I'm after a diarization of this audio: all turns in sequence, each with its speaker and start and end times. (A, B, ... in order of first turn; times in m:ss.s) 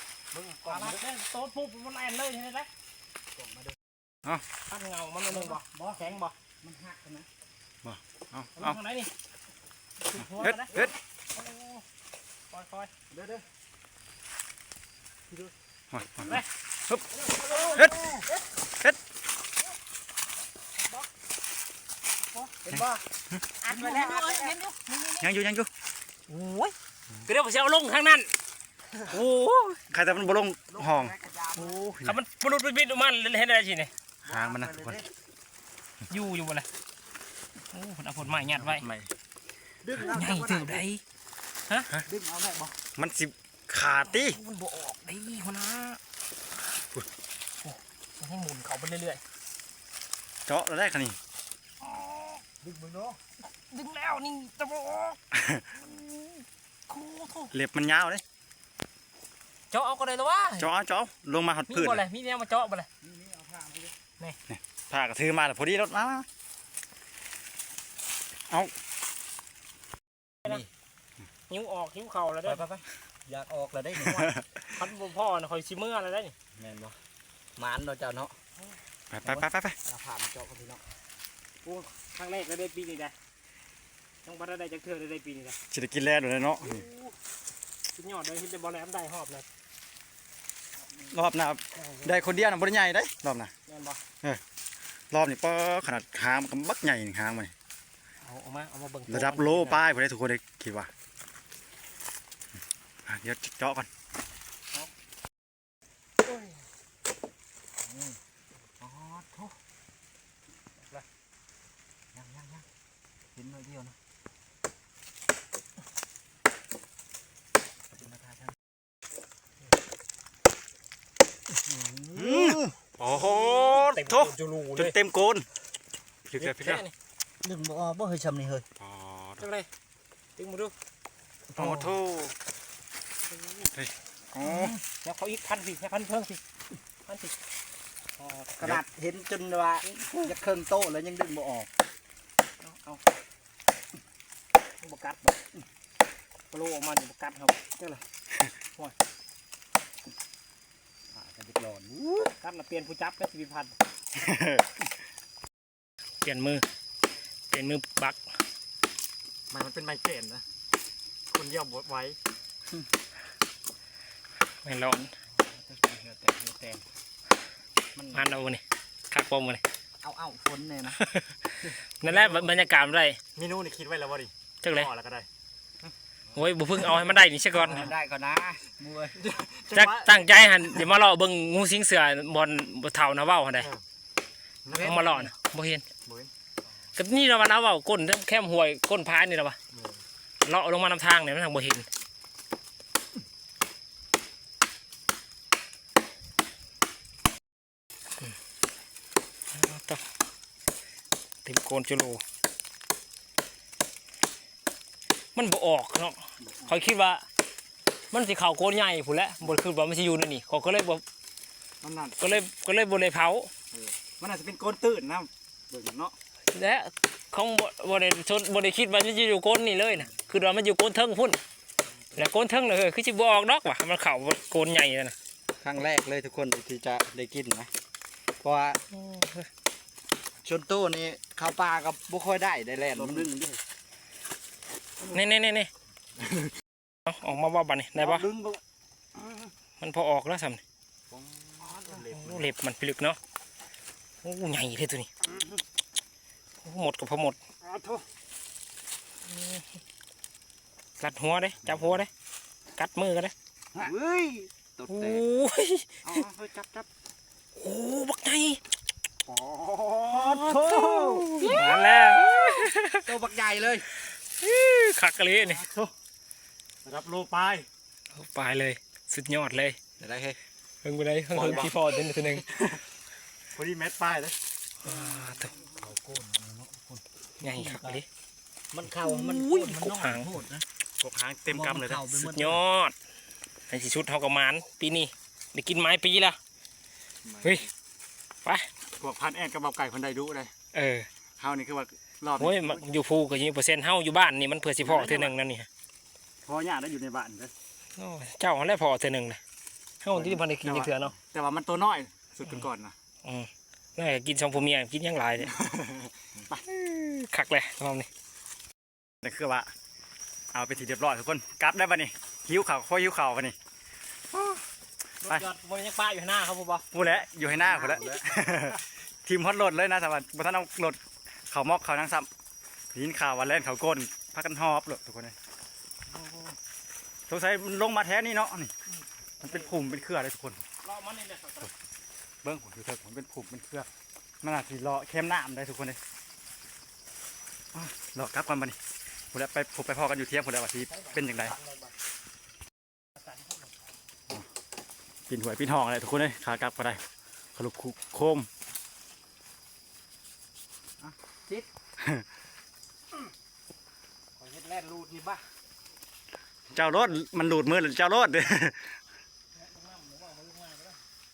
0:00.3-0:01.0 A
0:00.6-0:02.7 B
0:03.3-0:03.8 A
0:04.7-0:06.3 B
0:05.3-0:07.3 A
0:07.8-0:08.8 C
0:08.6-0:09.1 B
0:10.0-0:11.8 B
0:10.2-0:10.9 C
0:12.5-0:12.9 B
0:13.1-0:13.4 A
0:15.9-0:17.1 C
0:16.2-0:16.5 B
0:17.1-0:18.3 A
0:17.4-0:18.4 B
0:20.8-0:21.1 B
0:22.3-0:23.0 B
0:22.6-0:22.9 A
0:23.6-0:25.3 B
0:23.7-0:24.6 A
0:25.2-0:25.7 C
0:26.3-0:26.7 B
0:27.2-0:28.3 B
0:29.1-0:31.1 C
0:30.7-0:31.8 A
0:31.6-0:33.9 B
0:34.2-0:35.0 C
0:34.2-0:35.1 A
0:36.1-0:36.7 B
0:37.7-0:38.8 B
0:38.5-0:39.1 C
0:39.8-0:40.8 A
0:40.0-0:41.0 B
0:42.0-0:42.8 A
0:43.0-0:44.4 C
0:44.1-0:46.0 B
0:47.6-0:49.2 B
0:50.5-0:51.2 C
0:51.8-0:52.4 B
0:52.6-0:53.2 A
0:53.7-0:55.2 B
0:55.3-0:55.7 C
0:55.8-0:57.5 B
0:57.5-0:58.2 C
0:59.7-1:00.7 B
1:00.6-1:02.0 C
1:01.7-1:02.9 B
1:03.0-1:03.9 A
1:04.5-1:06.3 C
1:11.5-1:12.6 B
1:12.4-1:14.4 A
1:14.0-1:14.4 C
1:14.7-1:16.4 B
1:16.6-1:17.0 A
1:17.6-1:18.4 A
1:19.1-1:19.8 C
1:19.2-1:20.8 A
1:21.6-1:23.1 B
1:24.2-1:25.6 B
1:25.7-1:26.8 C
1:26.6-1:27.1 B
1:27.9-1:29.4 B
1:31.1-1:33.5 C
1:31.7-1:32.3 B
1:33.7-1:34.0 B
1:35.1-1:37.5 C
1:38.2-1:39.8 B
1:39.1-1:40.9 C
1:43.1-1:43.9 C
1:46.2-1:46.6 B
1:47.8-1:48.2 A
1:48.8-1:49.6 A
1:52.1-1:52.6 A
1:53.3-1:54.0 A
1:57.9-1:58.5 A
2:01.6-2:02.7 A
2:02.1-2:05.5 C
2:03.1-2:05.0 B
2:06.2-2:06.8 C
2:06.4-2:06.9 B
2:07.4-2:08.7 A
2:08.8-2:09.4 C
2:09.4-2:09.7 B
2:10.4-2:10.7 B
2:11.5-2:12.0 A
2:11.5-2:12.3 C
2:13.3-2:13.7 B
2:13.7-2:14.8 C
2:14.4-2:14.8 A
2:14.9-2:16.4 B
2:17.0-2:17.3 B
2:18.2-2:18.5 B
2:18.6-2:21.7 A
2:20.0-2:20.2 B
2:22.6-2:23.0 B
2:24.8-2:25.4 B
2:26.5-2:27.7 B
2:31.1-2:32.3 A
2:32.4-2:33.7 B
2:34.1-2:34.7 C
2:36.2-2:36.6 B
2:37.5-2:38.2 B
2:39.5-2:40.4 C
2:41.3-2:42.2 C
2:44.6-2:45.1 B
2:45.3-2:46.8 A
2:47.9-2:48.3 A
2:48.1-2:49.6 B
2:50.0-2:51.0 A
2:51.0-2:53.2 B
2:52.1-2:52.3 C
2:53.4-2:55.3 C
2:54.6-2:54.9 B
2:56.3-2:57.9 B
2:57.5-2:59.2 A
2:59.2-3:00.4 C
2:59.7-3:03.7 B
3:04.6-3:05.3 C
3:04.7-3:05.0 A
3:04.8-3:05.8 B
3:06.0-3:06.3 C
3:07.0-3:09.6 B
3:09.7-3:10.0 C
3:10.4-3:11.9 B
3:19.5-3:20.0 B
3:21.4-3:22.2 B
3:25.3-3:27.2 B
3:28.1-3:31.0 B
3:31.8-3:32.4 C
3:32.2-3:33.5 B
3:33.7-3:36.1 C
3:36.5-3:41.4 B
3:42.1-3:45.1 B
3:45.6-3:47.7 A
3:48.4-3:48.8 A
3:48.9-3:49.5 B
3:50.4-3:53.3 A
3:53.0-3:53.6 C
3:55.0-3:55.7 B
3:57.0-3:58.3 B
3:58.0-3:58.6 A
3:59.8-4:00.6 B
4:01.1-4:02.4 C
4:01.6-4:02.0 A
4:01.8-4:03.2 B
4:04.2-4:05.1 B
4:06.6-4:07.4 B
4:07.6-4:08.0 A
4:09.2-4:09.7 B
4:11.0-4:12.1 B
4:11.6-4:12.0 C
4:12.8-4:13.3 B
4:13.7-4:15.2 A
4:14.9-4:16.2 B
4:16.0-4:16.9 A
4:17.5-4:18.6 B
4:19.3-4:21.8 A
4:19.8-4:21.8 C
4:20.1-4:23.1 B
4:22.6-4:23.9 A
4:24.3-4:25.6 B
4:25.4-4:25.9 C
4:26.8-4:27.7 C
4:28.1-4:29.8 B
4:30.0-4:30.4 A
4:30.8-4:32.4 B
4:31.3-4:32.8 C
4:31.4-4:31.7 A
4:33.5-4:34.4 C
4:34.8-4:35.6 B
4:34.8-4:38.0 A
4:37.4-4:38.1 B
4:38.7-4:40.6 A
4:39.0-4:40.3 B
4:41.0-4:42.2 C
4:41.5-4:42.6 A
4:42.1-4:42.9 B
4:43.7-4:46.4 B
4:47.2-4:47.6 C
4:48.4-4:48.7 B
4:49.0-4:50.5 C
4:50.7-4:51.1 B
4:51.4-4:52.9 C
4:52.4-4:55.7 B
4:54.8-4:55.3 C
4:56.4-4:57.5 C
4:58.0-4:59.4 B
5:00.0-5:01.1 B
5:00.1-5:02.9 C
5:03.2-5:05.5 B
5:05.4-5:06.6 C
5:06.6-5:08.1 B
5:09.2-5:09.7 C
5:10.5-5:13.5 C
5:14.3-5:14.6 C
5:15.2-5:16.9 B
5:16.9-5:22.3 C
5:17.4-5:18.2 A
5:22.9-5:25.4 C
5:27.3-5:28.7 C
5:29.4-5:30.6 C
5:29.4-5:29.9 B
5:30.8-5:31.7 B
5:32.4-5:33.9 C
5:34.4-5:36.0 C
5:37.7-5:38.8 C
5:39.3-5:41.6 C
5:40.8-5:41.9 B
5:43.2-5:43.8 B
5:45.3-5:47.0 C
5:47.5-5:48.5 C
5:51.0-5:51.7 A
5:52.0-5:52.2 C
5:54.4-5:55.4 A
5:56.7-5:58.9 C
5:59.5-6:01.0 B